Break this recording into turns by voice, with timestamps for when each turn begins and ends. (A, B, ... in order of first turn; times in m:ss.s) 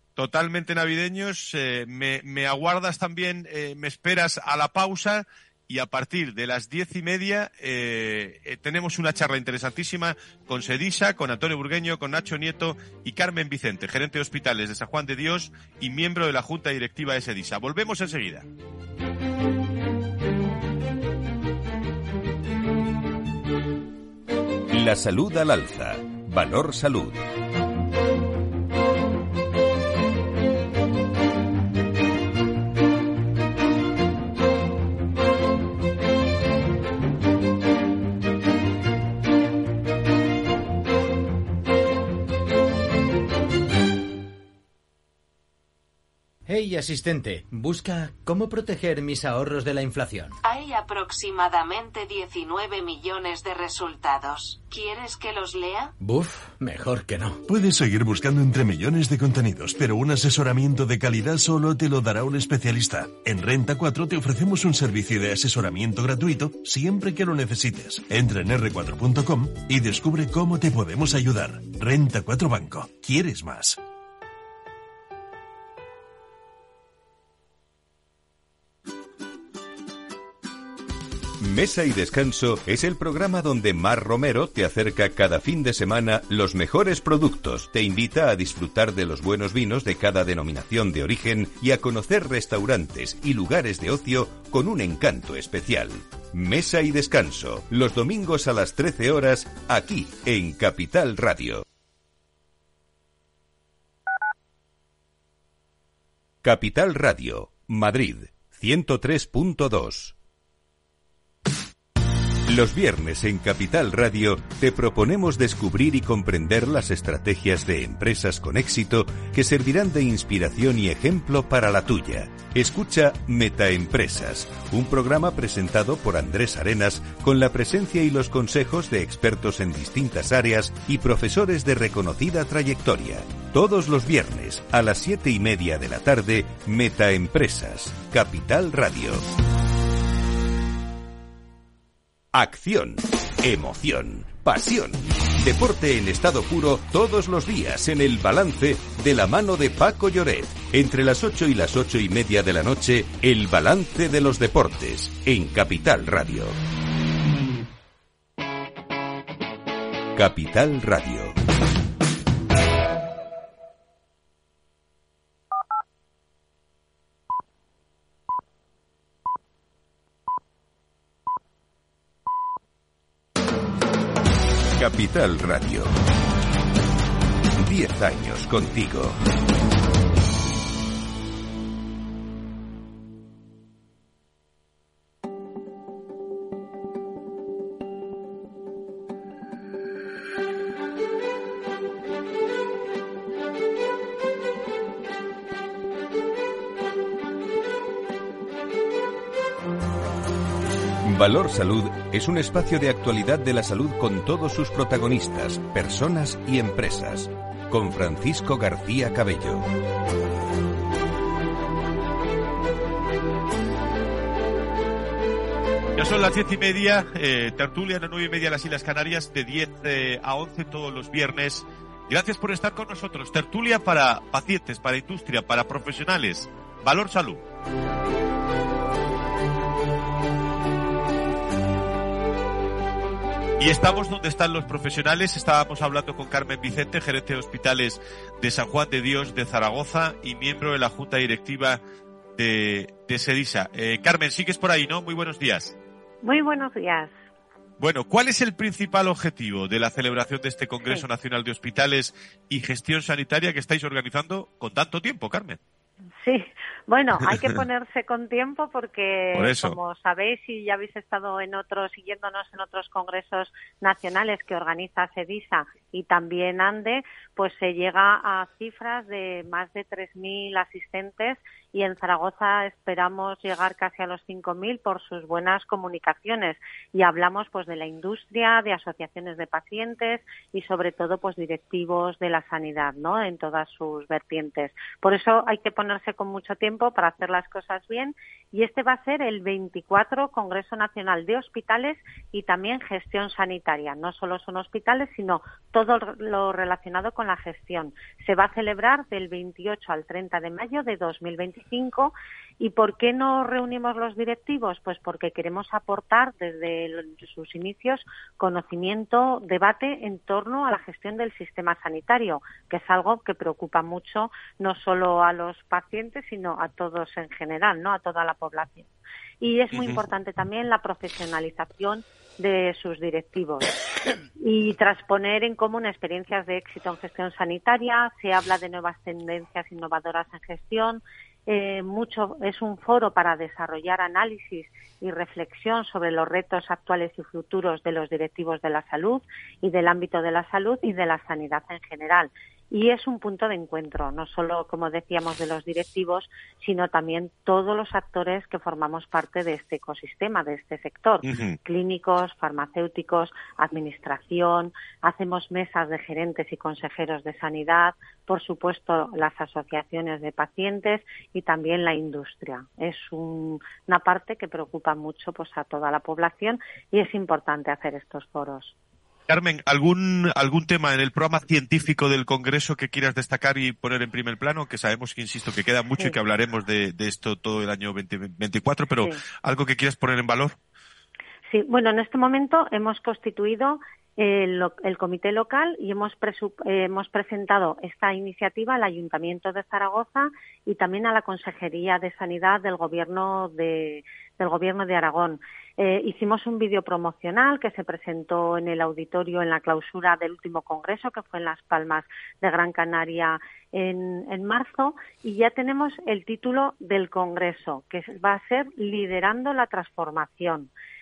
0:00.2-0:18.4 A
0:24.7-0:27.2 B
0:46.4-0:50.3 C
0:50.4-0:55.9 D
0:56.0-0:57.4 C
0:57.5-1:13.8 E
1:21.4-1:41.6 B
1:46.4-1:50.1 B
1:52.5-2:19.3 B
2:22.3-2:36.6 B
2:40.1-2:41.4 B
2:54.7-2:55.9 B
2:57.6-2:59.2 B
3:21.0-3:29.7 B
3:36.0-3:47.4 A
3:53.6-4:01.8 A
4:02.4-4:05.8 A
4:06.2-4:07.1 F
4:07.8-4:15.6 A
4:16.2-5:23.8 F
4:19.3-4:19.8 A
5:19.7-5:20.0 A
5:24.4-6:08.7 F
5:51.2-5:51.6 A
6:09.3-6:20.6 A
6:21.5-6:50.7 F